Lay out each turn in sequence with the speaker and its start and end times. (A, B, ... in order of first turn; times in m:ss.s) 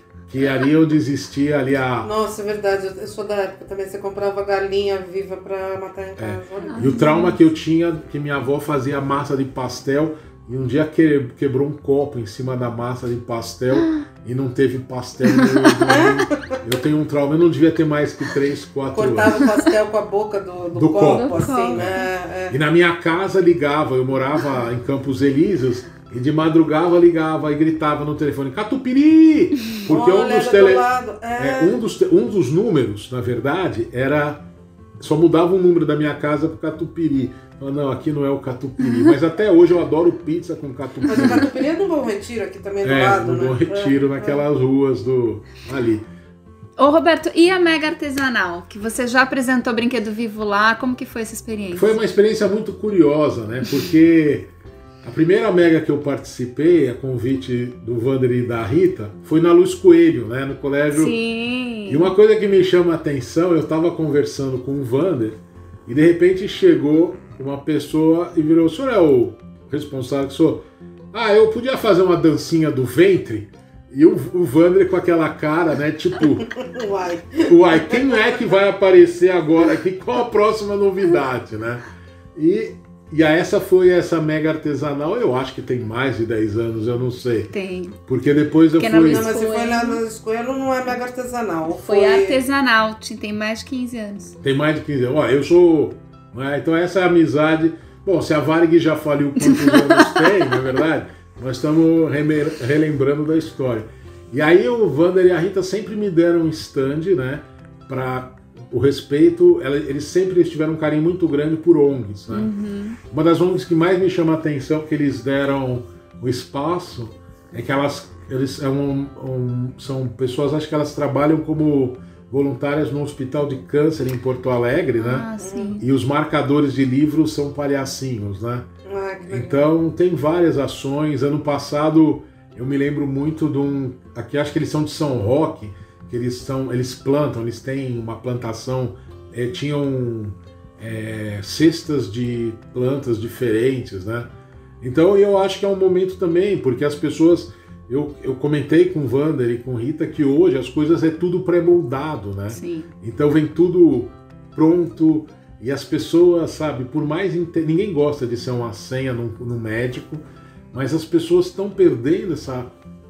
0:00.3-0:02.1 A
0:02.0-0:07.0 B
0:06.2-0:19.4 A
0:06.7-0:07.4 C
0:15.8-0:16.6 B
0:18.9-0:22.6 B
0:20.7-0:22.0 A
0:21.1-0:22.0 C
0:22.5-0:30.8 A
0:29.8-0:31.8 B
0:31.4-0:34.4 A
0:35.0-0:41.5 A
0:41.0-0:44.4 B
0:42.8-0:46.0 A
0:46.8-0:52.0 C
0:51.7-0:54.5 A
0:55.0-1:01.2 A
1:00.9-1:02.1 C
1:01.9-1:16.5 A
1:16.5-1:18.1 B
1:17.4-1:21.8 A
1:22.3-1:27.5 A
1:27.5-1:28.0 C
1:28.1-1:29.3 A
1:28.8-1:30.0 C
1:29.0-1:32.4 B
1:31.8-1:34.4 C
1:34.4-1:52.5 A
1:39.6-1:40.1 C
1:52.3-1:53.0 C
1:53.1-2:05.3 A
2:05.0-2:05.8 C
2:05.4-2:05.8 B
2:05.8-2:08.7 A
2:08.8-2:09.7 B
2:09.3-2:24.3 A
2:24.8-2:42.7 A
2:32.5-2:32.9 C